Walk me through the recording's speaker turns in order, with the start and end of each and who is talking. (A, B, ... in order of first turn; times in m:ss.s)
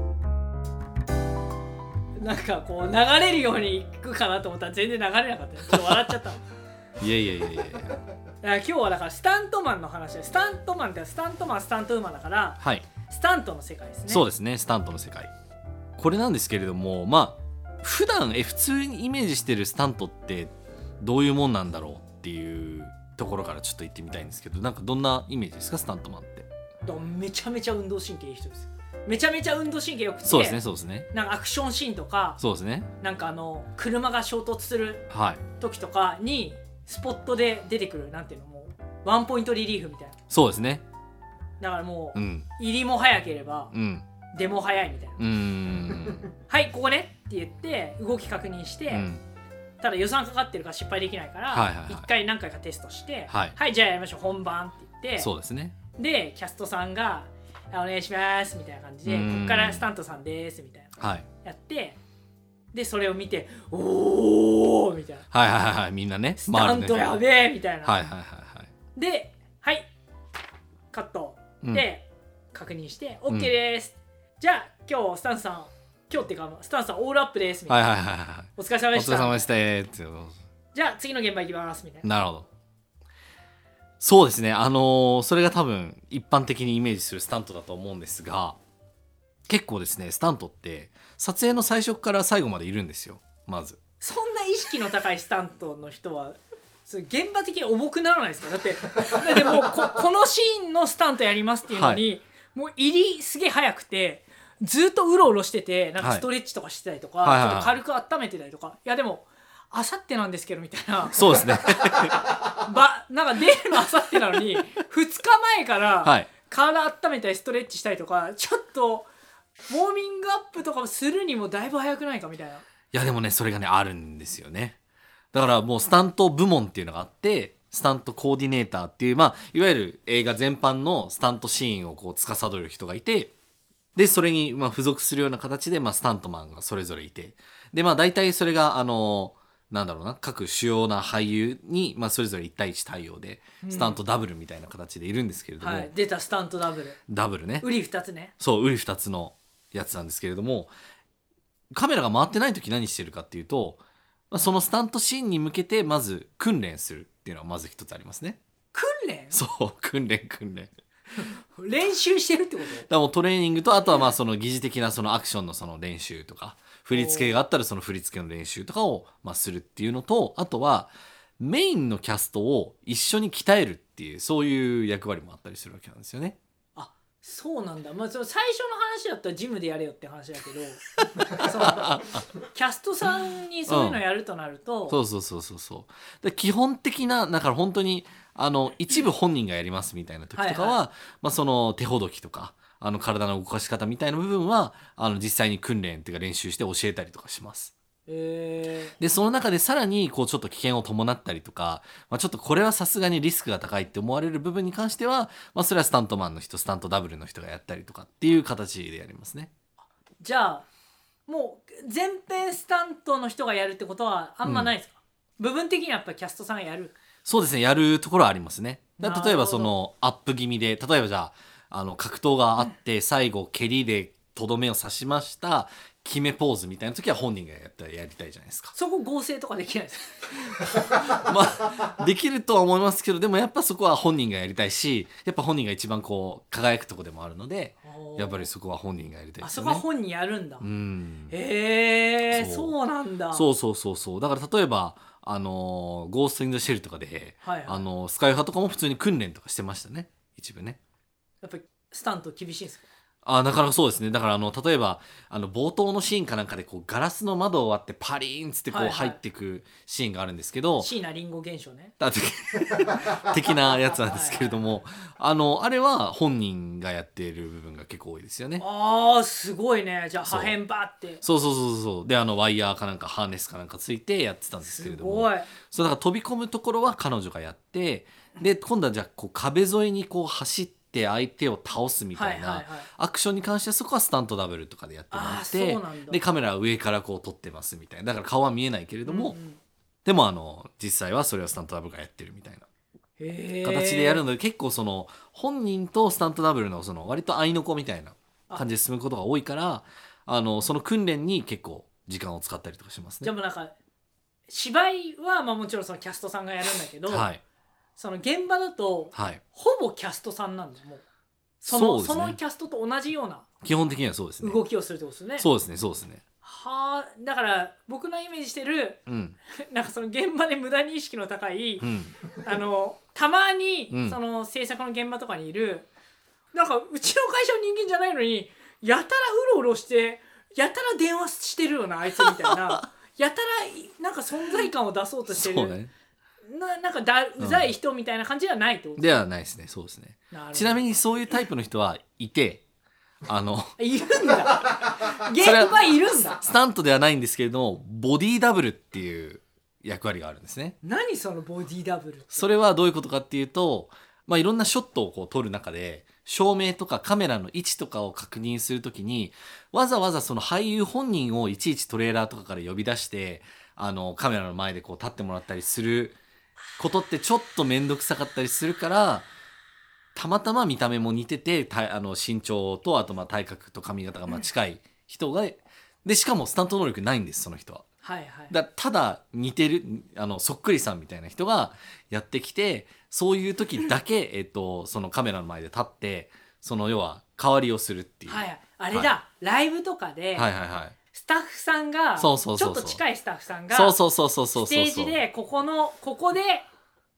0:02.2-0:06.4 A
0:07.0-0:08.0 B
0:08.4-0:14.2 A
0:12.6-0:12.9 B
0:14.1-0:15.3 B
0:16.0-0:26.5 B
0:26.8-0:30.6 A
0:30.2-0:31.1 B
0:31.1-0:32.4 A
0:32.4-0:32.9 B
0:33.0-0:40.2 A
0:35.1-0:35.4 B
0:40.3-0:40.8 B
0:41.6-0:43.7 A
0:42.1-0:42.5 B
0:43.7-0:44.0 B
0:44.3-0:45.2 A
0:45.2-0:46.3 B
0:46.5-0:49.1 A
0:48.9-0:49.2 B
0:49.8-0:55.3 A
0:51.5-0:52.1 B
0:53.3-0:53.6 B
0:55.2-0:55.8 B
0:55.9-1:02.0 A
0:59.0-0:59.9 B
1:01.0-1:01.3 B
1:02.7-1:05.3 A
1:05.3-1:07.2 B
1:06.4-1:07.9 A
1:07.8-1:08.7 B
1:08.9-1:09.9 A
1:10.9-1:17.8 A
1:11.6-1:11.9 B
1:17.7-1:20.4 B
1:18.6-1:19.5 A
1:20.7-1:22.1 A
1:22.0-1:22.5 B
1:24.0-1:28.6 B
1:29.5-1:33.8 B
1:34.0-1:59.1 A
1:41.7-1:42.0 B
1:46.0-1:46.3 B
1:47.2-1:47.8 B
1:51.1-1:52.2 B
1:56.0-1:56.3 B
1:59.7-2:02.6 A
2:02.9-2:04.8 B
2:05.3-2:13.3 B
2:13.9-2:25.9 B
2:23.6-2:24.0 A
2:25.6-2:27.0 A
2:27.1-2:27.7 B
2:27.6-2:28.3 A
2:28.4-2:30.7 B
2:31.7-2:38.4 B
2:38.7-2:39.4 A
2:39.3-2:40.7 B
2:41.5-2:42.9 A
2:42.9-2:56.4 B
2:46.9-2:47.4 A
2:56.8-3:05.0 A
3:01.2-3:02.2 B
3:03.7-3:04.0 B
3:04.9-3:17.7 B
3:10.3-3:10.8 A
3:18.1-3:18.9 A
3:19.0-3:29.5 B
3:30.2-3:30.7 A
3:31.3-3:36.9 A
3:34.4-3:34.7 B
3:37.2-3:48.7 B
3:39.0-3:39.7 A
3:48.7-3:51.0 A
3:50.8-3:59.8 B
3:57.8-3:58.5 A
3:59.4-4:00.7 A
4:00.6-4:01.3 B
4:01.3-4:03.4 A
4:02.3-4:02.7 B
4:03.3-4:10.8 B
4:07.4-4:07.8 A
4:11.4-4:12.9 A
4:13.2-4:20.9 B
4:18.7-4:19.2 A
4:20.8-4:21.9 A
4:22.0-4:28.6 B
4:24.0-4:24.5 A
4:28.6-4:31.2 A
4:30.2-4:30.6 B
4:31.2-4:49.4 B
4:34.6-4:35.5 A
4:42.1-4:42.9 A
4:45.1-4:46.2 A
4:49.0-4:49.6 A
4:50.0-4:52.6 B
4:53.2-4:54.2 A
4:53.6-5:03.3 B
5:03.2-5:03.7 A
5:04.5-5:07.3 A
5:07.1-5:07.4 B
5:08.0-5:11.0 A
5:09.1-5:09.4 B
5:11.6-5:13.4 A
5:11.7-5:12.4 B
5:13.6-5:14.6 B
5:14.4-5:15.5 A
5:15.4-5:16.2 B
5:16.4-5:25.9 A
5:19.1-5:19.4 B
5:21.8-5:22.2 B
5:23.9-5:24.2 B
5:26.5-5:35.8 A
5:32.2-5:32.8 B
5:35.3-5:35.9 B
5:36.4-5:39.1 A
5:37.4-5:37.7 B
5:39.0-5:42.6 B
5:40.3-5:40.8 A
5:43.3-5:43.8 B
5:43.8-5:46.4 A
5:45.4-5:50.8 B
5:50.8-5:52.5 A
5:52.3-6:06.2 B
6:06.8-6:09.3 B
6:10.1-6:17.8 B
6:18.0-6:18.5 A
6:18.5-6:29.1 B
6:28.3-6:30.5 A
6:30.3-6:31.0 B
6:31.1-6:34.0 A
6:32.2-6:33.0 B
6:33.7-6:35.2 B
6:34.5-6:36.6 A